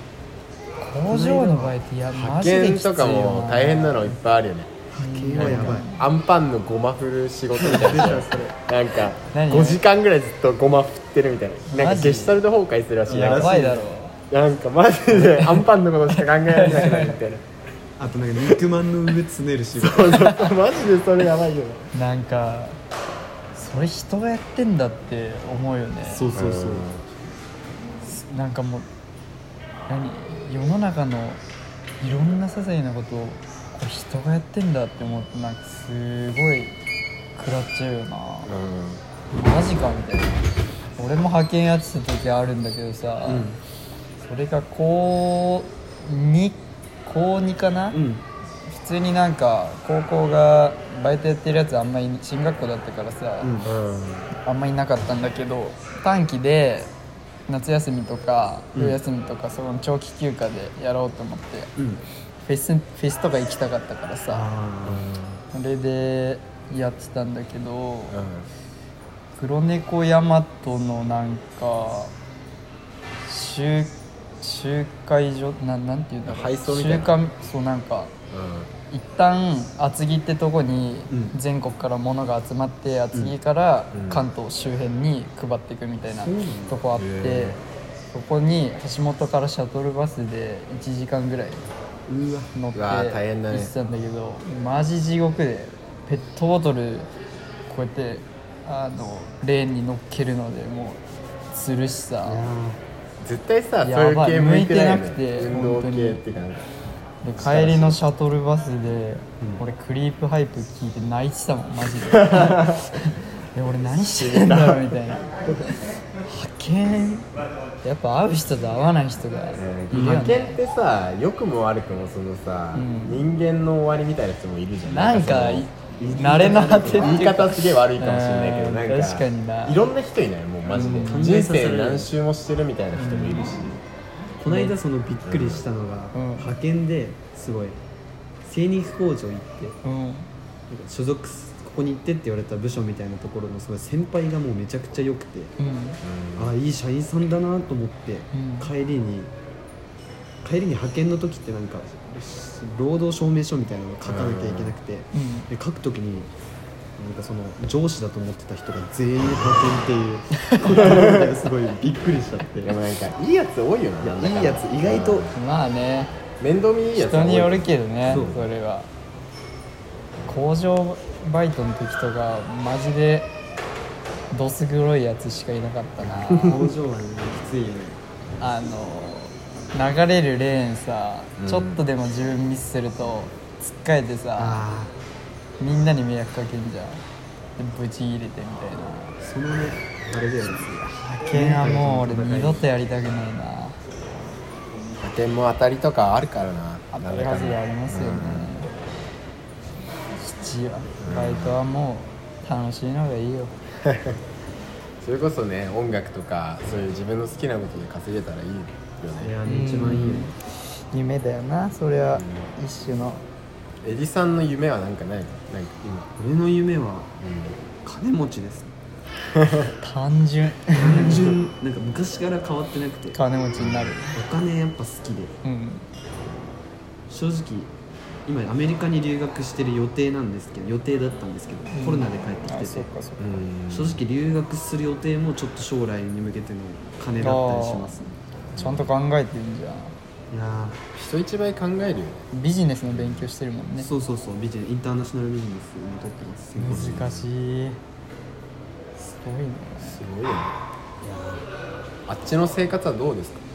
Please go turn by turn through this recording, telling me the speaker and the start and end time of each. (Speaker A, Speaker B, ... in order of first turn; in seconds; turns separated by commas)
Speaker A: 0.8-4.2, Speaker B: 1.1-1.8, Speaker C: 2.1-4.7, Speaker B: 4.9-5.9, Speaker A: 5.0-6.0, Speaker C: 5.3-13.6, Speaker B: 7.5-8.6, Speaker A: 9.3-9.8, Speaker A: 11.7-12.4, Speaker B: 13.1-13.8, Speaker A: 13.1-14.2, Speaker C: 14.3-17.4, Speaker A: 15.1-15.6, Speaker A: 16.1-17.2, Speaker B: 18.0-20.3, Speaker C: 19.7-21.9, Speaker A: 20.2-20.5, Speaker A: 21.9-22.8, Speaker A: 23.5-26.2, Speaker B: 26.0-26.9, Speaker C: 26.3-27.0, Speaker A: 28.0-28.9, Speaker A: 29.9-31.4, Speaker A: 32.0-36.7, Speaker A: 37.4-38.5, Speaker C: 38.5-39.0, Speaker A: 39.3-40.4, Speaker A: 41.0-43.5, Speaker B: 43.2-43.6, Speaker A: 44.2-48.0, Speaker B: 47.9-48.2, Speaker A: 48.7-53.5, Speaker B: 53.4-53.7, Speaker C: 53.6-54.3, Speaker A: 54.4-56.9, Speaker A: 57.5-61.7, Speaker B: 61.8-62.0, Speaker A: 62.5-64.4, Speaker B: 64.3-65.0, Speaker C: 64.8-65.4, Speaker A: 65.5-68.2, Speaker C: 68.1-68.5, Speaker A: 69.3-72.1, Speaker A: 73.2-78.1, Speaker C: 76.2-77.1, Speaker C: 78.3-78.7, Speaker A: 78.9-87.6, Speaker B: 81.1-81.4, Speaker C: 83.9-84.3, Speaker B: 86.2-86.8, Speaker C: 86.9-87.6, Speaker A: 88.1-91.7, Speaker B: 92.1-92.5, Speaker A: 92.5-97.1, Speaker C: 92.7-93.7, Speaker A: 97.7-101.0, Speaker A: 101.5-102.5, Speaker B: 102.2-102.8, Speaker C: 103.2-106.7, Speaker A: 103.8-106.2, Speaker A: 107.2-117.3, Speaker C: 107.4-108.0, Speaker C: 112.1-112.8, Speaker C: 114.1-115.0, Speaker A: 117.8-120.6, Speaker C: 119.5-125.7, Speaker B: 119.9-120.2, Speaker A: 122.7-123.3, Speaker A: 124.8-129.8, Speaker B: 126.0-127.2, Speaker C: 126.9-133.8, Speaker B: 130.7-132.1, Speaker A: 130.7-131.4, Speaker A: 132.9-133.7, Speaker B: 134.4-137.8, Speaker A: 134.5-134.7, Speaker C: 135.2-135.7, Speaker A: 136.1-136.5, Speaker B: 138.4-139.8, Speaker A: 139.8-140.3, Speaker B: 140.7-145.5, Speaker A: 145.6-146.0, Speaker C: 146.0-146.5, Speaker B: 146.3-149.3, Speaker A: 148.3-148.7, Speaker B: 150.4-156.3, Speaker C: 154.0-154.8, Speaker A: 155.1-155.5, Speaker B: 157.0-162.8, Speaker A: 160.4-160.9, Speaker C: 160.8-161.3, Speaker C: 162.6-165.3, Speaker B: 164.0-165.3, Speaker A: 165.3-166.1, Speaker C: 166.4-168.4, Speaker A: 166.9-168.9, Speaker A: 170.3-173.3, Speaker A: 174.3-176.6, Speaker C: 176.0-176.6, Speaker B: 176.4-178.0, Speaker A: 178.4-184.7, Speaker C: 181.4-181.8, Speaker B: 184.3-184.9, Speaker A: 185.6-187.0, Speaker A: 187.6-189.2, Speaker B: 189.2-192.6, Speaker A: 190.8-193.8, Speaker C: 195.0-198.5, Speaker A: 196.9-198.7, Speaker A: 200.2-203.5, Speaker C: 201.0-201.6, Speaker C: 203.8-204.2, Speaker C: 205.0-209.3, Speaker B: 209.2-210.3, Speaker A: 209.4-213.2, Speaker C: 212.2-212.5, Speaker C: 213.8-216.1, Speaker B: 216.2-217.1, Speaker C: 217.2-217.6, Speaker B: 217.8-218.7, Speaker C: 219.3-219.7, Speaker A: 219.8-221.3, Speaker B: 220.8-223.2, Speaker A: 223.1-224.2, Speaker C: 223.6-223.9, Speaker B: 224.1-225.3, Speaker A: 225.4-225.8, Speaker B: 227.1-227.7, Speaker B: 228.2-232.9, Speaker A: 231.7-233.4, Speaker C: 233.2-234.0, Speaker B: 233.7-238.2, Speaker A: 237.2-237.9, Speaker C: 238.5-238.9, Speaker A: 238.6-239.9, Speaker B: 240.3-240.8, Speaker C: 240.9-242.2, Speaker A: 242.3-243.9, Speaker C: 242.9-243.3, Speaker B: 243.8-247.0, Speaker A: 246.6-247.8, Speaker C: 246.7-247.2, Speaker A: 249.0-250.0, Speaker C: 249.8-250.6, Speaker B: 251.0-251.4, Speaker C: 252.1-253.4